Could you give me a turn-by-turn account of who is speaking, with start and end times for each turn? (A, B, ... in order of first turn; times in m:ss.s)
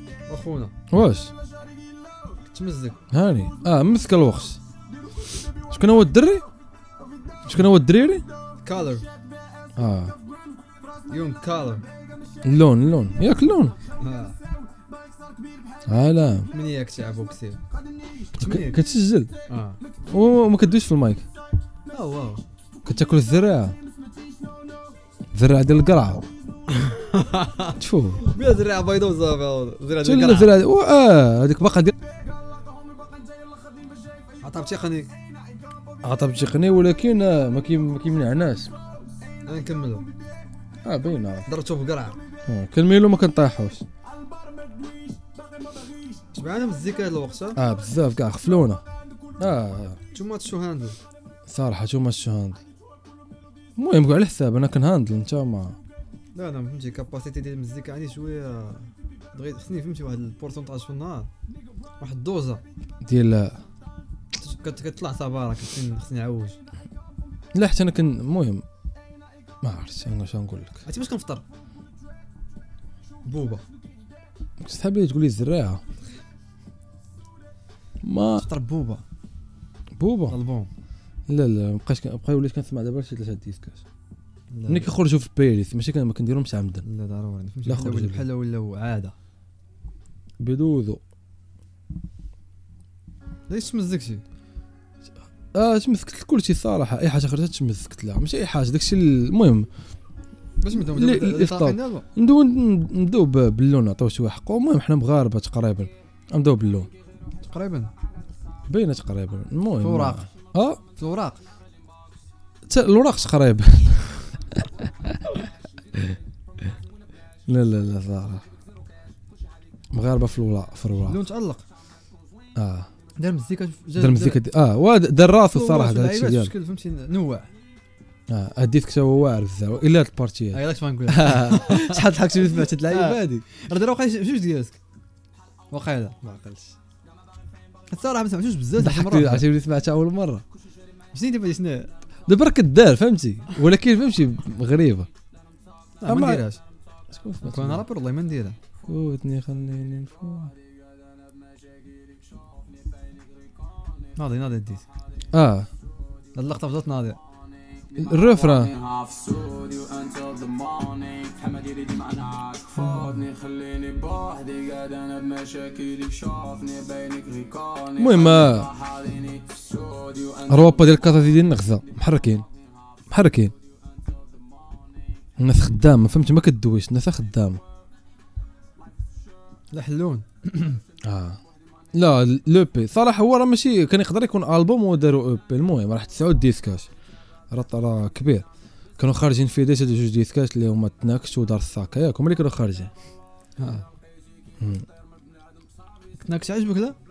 0:00.3-0:00.8 A
0:00.9-0:01.3 B
0:02.5-0:03.0 A
0:03.1-0:04.6 B
0:05.7-0:06.5 B
0:07.5-0:08.2 B
0:08.6-0:09.1 A
0:09.8-0:10.2 B
0:11.1-0:11.9 A
0:12.4-0:13.8 B
0:14.0-0:14.4 A
0:15.9-0:16.5 B
0:16.5-0:17.6 A
0:18.4-0:19.3 B
0:18.4-0:18.8 A
0:19.5-0:19.8 A
0:20.1-0:21.2 B
0:21.9-0:22.4 A
0:22.8-0:23.8 B
0:25.3-0:26.3 B
0:26.7-0:30.6 A
0:27.8-0:28.2 B
0:30.0-0:31.9 B
0:34.4-0:35.1 A
0:36.0-0:38.7 B
0:39.5-0:40.1 A
0:40.8-0:41.5 B
0:41.5-0:42.2 A
0:42.5-0:43.8 B
0:44.6-0:45.2 C
0:46.3-0:47.6 A
0:47.5-0:48.8 B
0:49.4-0:50.0 B
0:50.1-0:51.0 A
0:51.5-0:52.6 B
0:53.8-0:55.8 B
0:56.4-1:01.3 A
1:02.0-1:02.6 A
1:03.0-1:03.6 B
1:04.4-1:06.6 A
1:07.5-1:08.6 B
1:09.6-1:10.8 B
1:10.8-1:11.4 A
1:13.2-1:13.6 A
1:14.6-1:15.8 B
1:18.0-1:18.5 B
1:18.4-1:19.0 A
1:20.0-1:20.4 B
1:20.3-1:20.7 A
1:21.3-1:23.8 B
1:24.5-1:24.9 A
1:24.7-1:26.9 B
1:26.8-1:29.2 A
1:27.6-1:28.3 B
1:30.4-1:31.0 B
1:33.5-1:34.2 A
1:35.5-1:39.7 B
1:40.6-1:42.1 A
1:40.7-1:46.9 B
1:47.4-1:47.9 A
1:48.7-1:50.8 B
1:49.8-1:50.3 A
1:51.0-1:51.4 A
1:52.7-1:56.7 B
1:57.5-1:58.4 B
1:59.9-2:01.2 B
2:01.0-2:01.6 A
2:02.6-2:02.9 B
2:03.2-2:04.4 A
2:04.0-2:06.5 B
2:05.5-2:07.5 A
2:08.3-2:13.5 B
2:10.5-2:12.0 A
2:12.8-2:14.8 A
2:15.7-2:16.2 A
2:16.2-2:16.8 B
2:17.9-2:19.5 A
2:18.8-2:20.4 B
2:21.1-2:21.9 A
2:22.3-2:25.1 B
2:26.0-2:26.6 A
2:26.1-2:26.4 B
2:27.1-2:27.9 B
2:27.4-2:28.6 A
2:28.8-2:30.5 B
2:34.2-2:34.9 A
2:35.3-2:35.7 B
2:36.4-2:37.2 A
2:38.0-2:38.8 B
2:38.7-2:50.5 C
2:48.0-2:48.7 B
2:50.5-2:52.5 B
2:53.1-2:53.5 B
2:55.4-2:57.6 B
2:59.7-3:00.8 A
3:01.0-3:01.4 B
3:01.9-3:06.9 B
3:07.5-3:08.5 B
3:09.0-3:12.9 B
3:13.6-3:13.9 A
3:14.6-3:14.9 B
3:16.2-3:17.0 A